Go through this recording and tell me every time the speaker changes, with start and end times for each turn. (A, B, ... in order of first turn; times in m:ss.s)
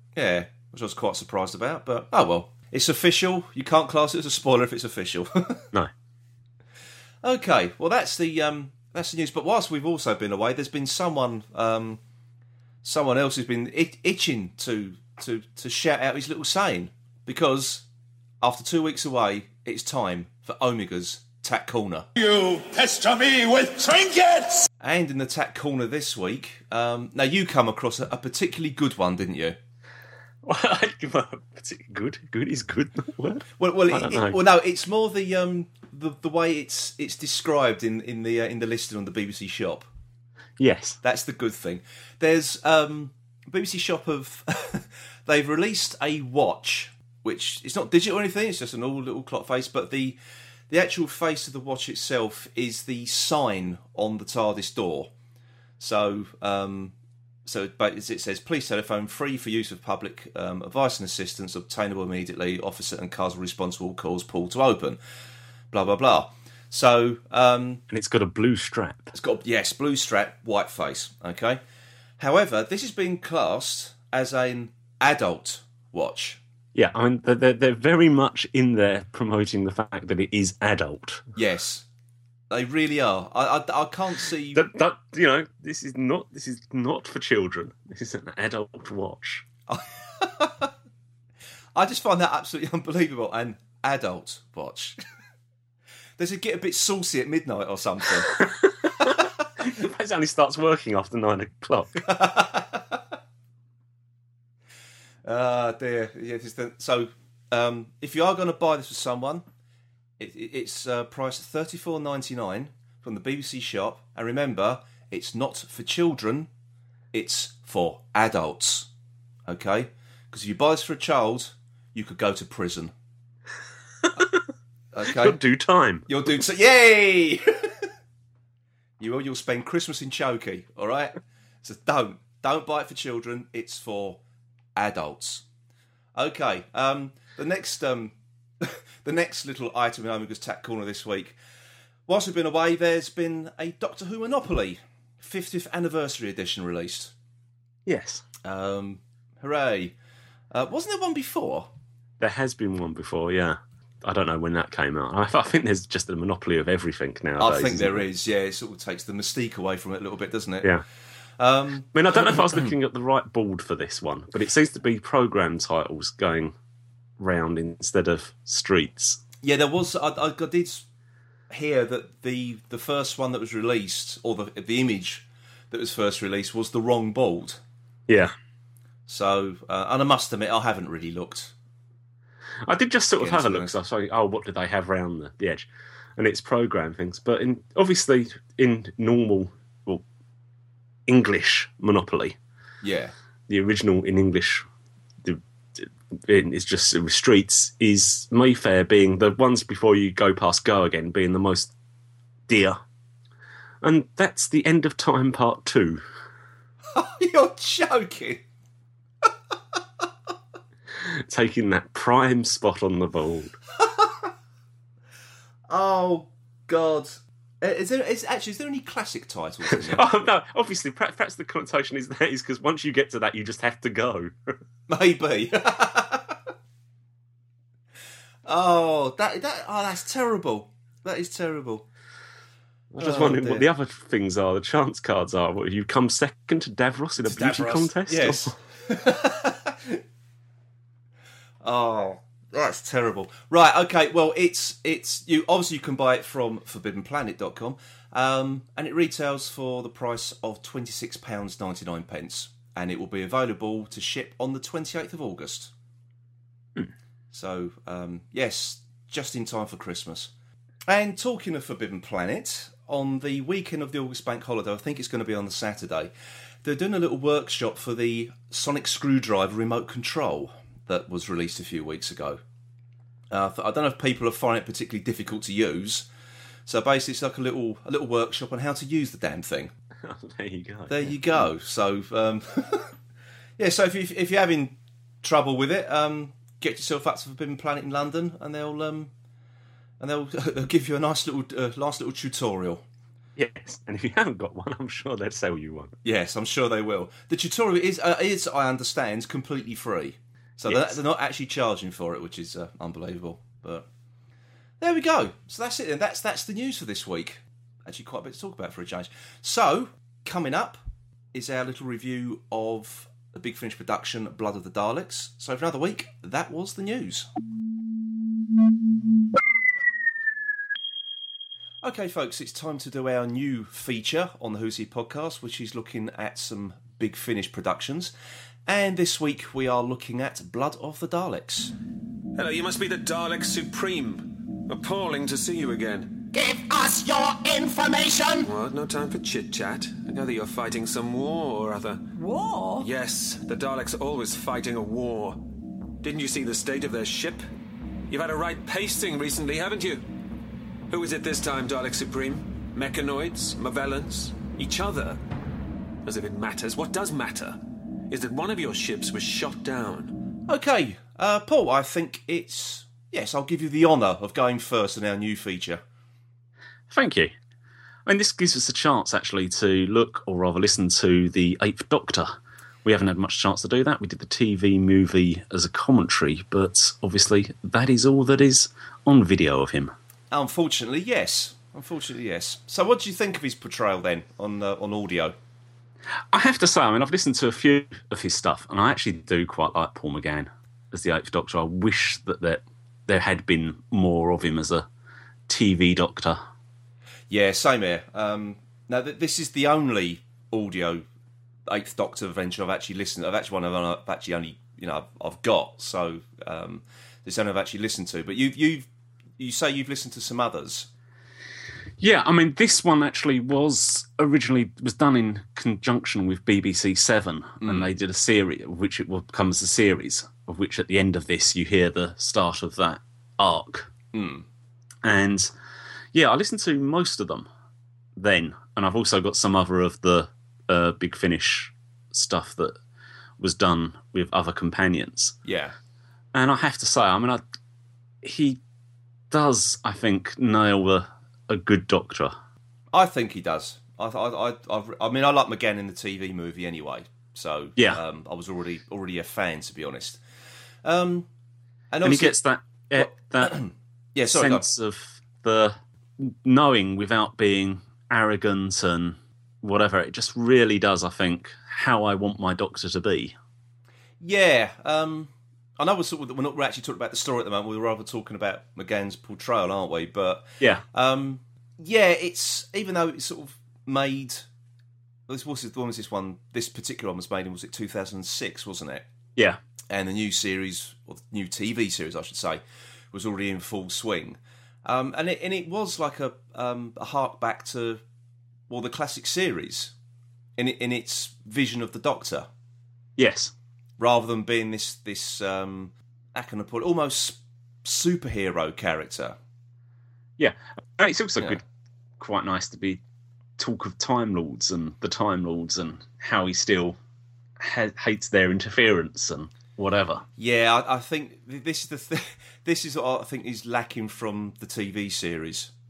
0:00.2-0:05.6 A
0:07.2-0:12.0 A
0:12.8-0:17.9 A
0:18.4-0:22.1 A
0:22.2-0:24.6 B
0:24.8-0:29.6 A
0:30.4-0:34.4 C
0:33.6-0:39.9 A
0:40.6-0:41.0 C
0:41.0-0:50.2 A
0:50.7-0:55.1 A
0:55.8-0:56.9 A
0:57.5-1:05.0 A
1:05.7-1:07.8 A
1:07.9-1:09.1 C
1:09.1-1:11.6 A
1:12.2-1:16.4 A
1:16.7-1:21.2 C
1:21.4-1:21.9 A
1:22.5-1:24.6 A
1:24.5-1:29.4 C
1:29.7-1:30.7 A
1:31.8-1:35.0 A
1:36.2-1:38.5 A
1:38.3-1:42.0 C
1:42.0-1:43.0 A
1:45.2-1:49.4 A
1:50.2-1:56.5 A
1:57.1-1:58.9 A
1:59.5-2:02.9 A
2:04.0-2:04.4 C
2:04.9-2:05.4 A
2:05.1-2:06.4 C
2:06.1-2:07.7 A
2:09.0-2:14.2 A
2:14.8-2:15.4 A
2:16.2-2:21.4 A
2:22.1-2:27.1 A
2:27.9-2:28.2 C
2:28.4-2:30.0 A
2:30.5-2:31.7 A
2:32.2-2:38.0 C
2:37.4-2:40.7 A
2:41.4-2:42.6 A
2:41.9-2:46.5 C
2:47.2-2:49.2 C
2:49.4-2:50.9 A
2:51.5-2:57.6 A
2:58.1-2:58.3 C
2:59.1-3:01.5 A
3:02.6-3:10.0 C
3:03.2-3:03.7 A
3:11.1-3:12.4 C
3:12.8-3:13.1 A
3:13.5-3:14.7 C
3:15.2-3:21.7 C
3:22.5-3:22.8 C
3:23.8-3:26.0 C
3:26.9-3:28.4 A
3:30.9-3:33.6 C
3:33.8-3:34.1 A
3:35.7-3:40.1 A
3:39.7-3:44.6 C
3:44.9-3:46.4 A
3:48.5-3:51.9 A
3:52.9-3:58.6 C
3:53.0-3:53.7 A
3:57.2-4:00.0 A
4:01.6-4:15.7 A
4:17.3-4:20.3 A
4:20.9-4:26.1 A
4:26.6-4:32.4 A
4:33.3-4:36.1 A
4:36.7-4:39.7 A
4:40.0-4:41.4 C
4:40.9-4:43.0 A
4:43.6-4:49.1 A
4:50.0-4:52.8 A
4:53.4-4:56.0 C
4:56.0-5:03.9 A
5:00.7-5:01.0 C
5:04.8-5:10.8 A
5:11.3-5:17.3 A
5:21.8-5:28.1 A
5:28.7-5:31.7 A
5:32.4-5:36.2 D
5:36.3-5:38.5 E
5:38.4-5:42.1 D
5:42.2-5:42.9 E
5:42.8-5:45.5 D
5:46.0-5:47.4 D
5:48.1-5:50.0 D
5:50.9-5:55.2 D
5:56.0-6:00.2 D
6:00.5-6:05.8 A
6:06.9-6:07.3 C
6:08.1-6:19.9 C
6:20.3-6:25.4 A
6:26.3-6:34.9 C
6:35.5-6:36.4 C
6:37.3-6:41.0 A
6:41.7-6:50.9 A
6:52.0-7:03.9 C
6:57.6-6:57.9 A
7:04.1-7:04.4 A
7:05.0-7:05.5 C
7:06.1-7:07.5 C
7:08.2-7:12.8 C
7:13.4-7:15.4 C
7:15.4-7:15.8 A
7:16.3-7:17.4 C
7:18.2-7:18.6 C
7:19.3-7:22.3 C
7:22.9-7:30.2 A
7:30.8-7:31.3 A
7:31.9-7:32.4 A
7:32.0-7:33.6 C
7:33.0-7:34.7 A
7:34.3-7:43.4 C
7:44.2-7:54.5 A
7:55.3-7:59.1 A
7:59.9-8:02.6 A
8:03.1-8:08.0 A
8:08.7-8:09.9 A
8:10.6-8:12.5 A
8:13.2-8:13.5 C
8:14.0-8:19.4 A
8:20.4-8:21.6 C
8:22.2-8:23.0 C
8:23.6-8:27.0 C
8:27.6-8:30.2 C
8:30.4-8:35.7 A